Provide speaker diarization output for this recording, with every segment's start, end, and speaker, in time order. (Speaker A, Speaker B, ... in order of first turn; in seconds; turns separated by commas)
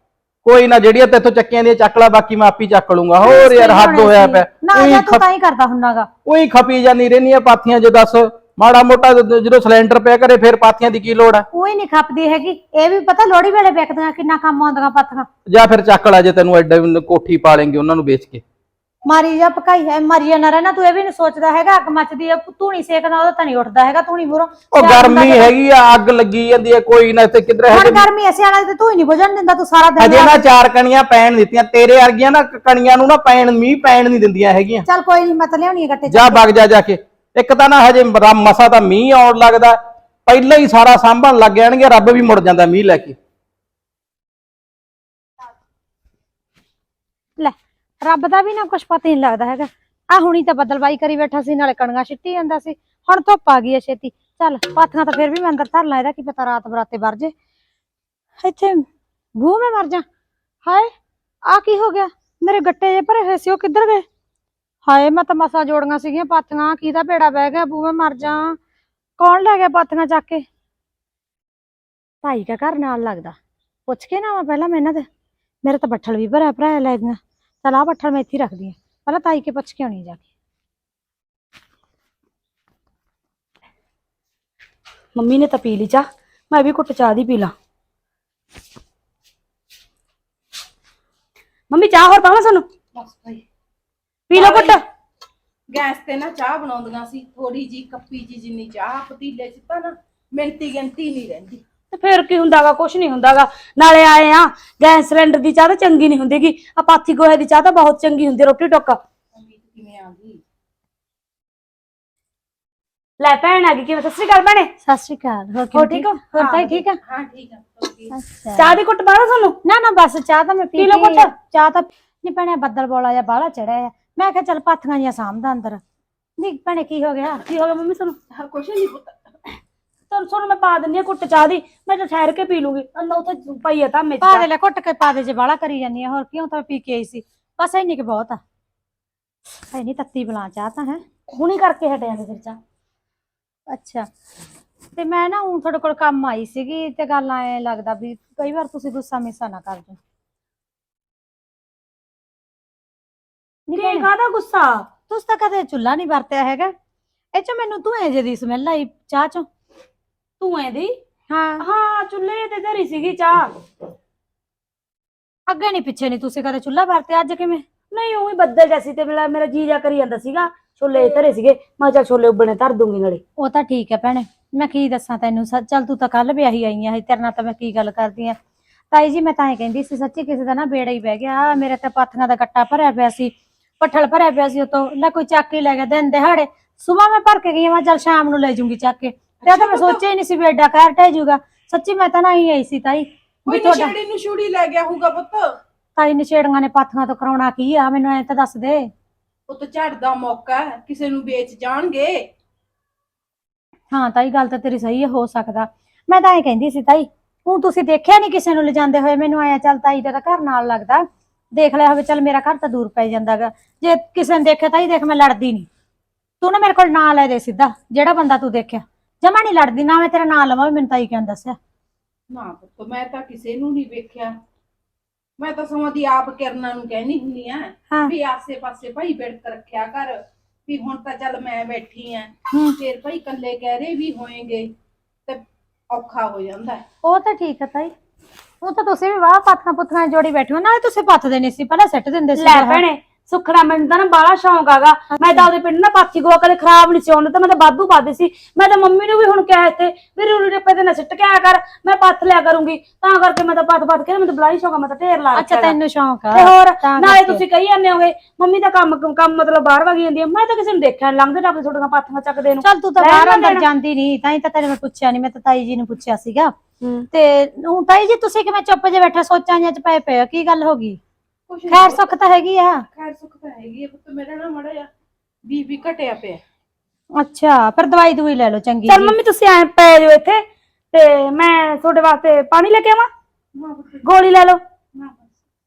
Speaker A: 0.4-5.2, Speaker B: 3.2-6.1, Speaker A: 6.2-11.4, Speaker B: 11.5-15.2, Speaker A: 15.5-18.4, Speaker B: 19.1-25.5, Speaker A: 24.7-28.0, Speaker B: 27.7-30.5, Speaker A: 30.0-34.8, Speaker B: 34.9-36.7, Speaker A: 36.1-43.1, Speaker B: 47.4-57.3, Speaker B: 58.4-58.8, Speaker B: 59.4-60.0, Speaker B: 61.5-64.0, Speaker B: 64.8-68.6, Speaker B: 69.2-70.4, Speaker B: 72.2-75.0, Speaker B: 75.6-80.3, Speaker C: 85.1-87.5, Speaker C: 91.7-92.7, Speaker D: 92.9-93.4, Speaker C: 94.3-94.8, Speaker D: 94.3-94.8, Speaker D: 95.7-101.6, Speaker C: 101.9-109.0, Speaker D: 109.3-110.4, Speaker C: 113.2-114.7, Speaker B: 114.8-117.0, Speaker C: 115.7-116.7, Speaker D: 117.0-118.1, Speaker B: 118.1-118.8, Speaker C: 118.5-119.6, Speaker B: 119.6-125.8, Speaker C: 120.8-121.3, Speaker B: 126.4-127.4, Speaker C: 127.5-128.2, Speaker D: 128.3-129.1, Speaker C: 130.1-134.4, Speaker B: 134.2-138.4, Speaker B: 139.7-141.0, Speaker C: 141.3-142.6, Speaker B: 143.7-144.1, Speaker B: 144.9-150.0, Speaker B: 153.7-154.1, Speaker C: 153.7-154.8, Speaker B: 155.1-156.7, Speaker B: 157.3-159.4, Speaker C: 160.4-160.9, Speaker B: 161.3-161.7, Speaker C: 161.6-163.5, Speaker B: 165.5-167.6, Speaker C: 167.9-173.2, Speaker B: 170.9-171.2, Speaker B: 173.4-178.3, Speaker B: 178.9-193.9, Speaker D: 189.4-190.0, Speaker D: 193.5-195.4, Speaker B: 196.0-198.9, Speaker D: 199.5-202.2, Speaker B: 203.9-215.7, Speaker B: 216.4-221.6, Speaker D: 222.3-224.3, Speaker D: 225.4-234.7, Speaker B: 232.5-232.8, Speaker D: 235.3-236.8, Speaker B: 237.0-237.9, Speaker B: 238.6-242.8, Speaker C: 242.4-255.8, Speaker B: 245.1-245.5, Speaker B: 255.3-257.4, Speaker C: 256.3-263.6, Speaker B: 262.6-266.5, Speaker C: 266.8-267.1, Speaker B: 267.1-271.0, Speaker D: 271.5-272.1, Speaker B: 271.7-272.8, Speaker D: 272.9-274.9, Speaker D: 275.5-276.4, Speaker B: 277.2-279.1, Speaker C: 278.9-280.4, Speaker C: 280.9-283.1, Speaker D: 283.5-284.1, Speaker C: 284.0-284.6, Speaker D: 284.9-285.3